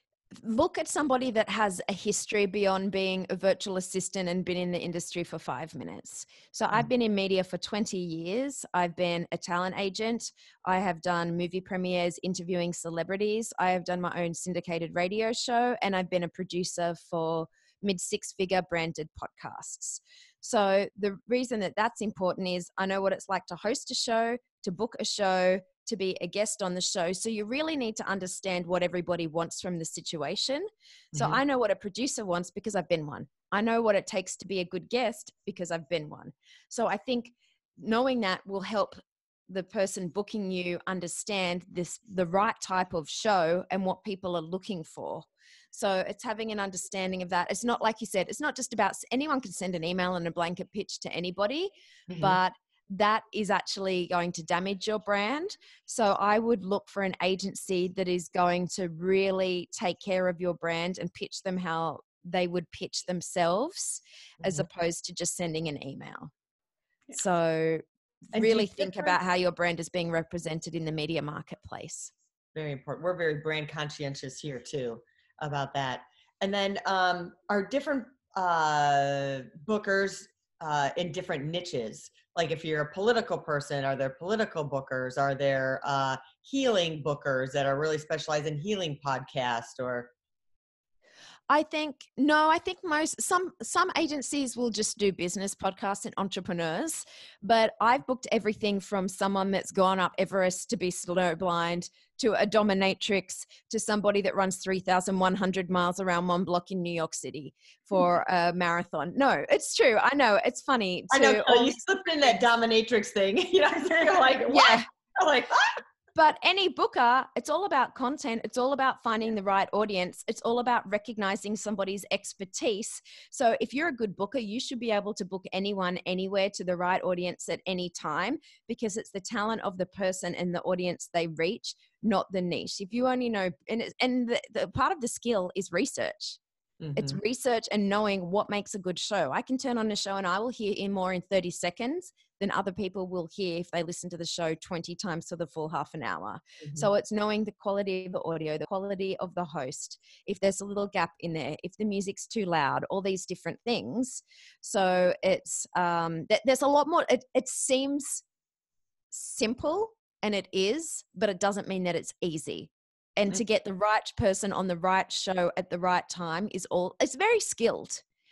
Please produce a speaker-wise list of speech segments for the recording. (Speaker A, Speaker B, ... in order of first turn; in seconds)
Speaker A: 0.3-66.3, 67.1-72.1, 91.5-111.8, 114.5-114.8, 116.1-136.4, 136.9-158.2, 159.1-168.0
Speaker B: 31.1-31.4, 52.1-52.4, 64.4-64.7, 68.3-69.2, 72.5-90.1, 111.1-115.8, 136.8-137.2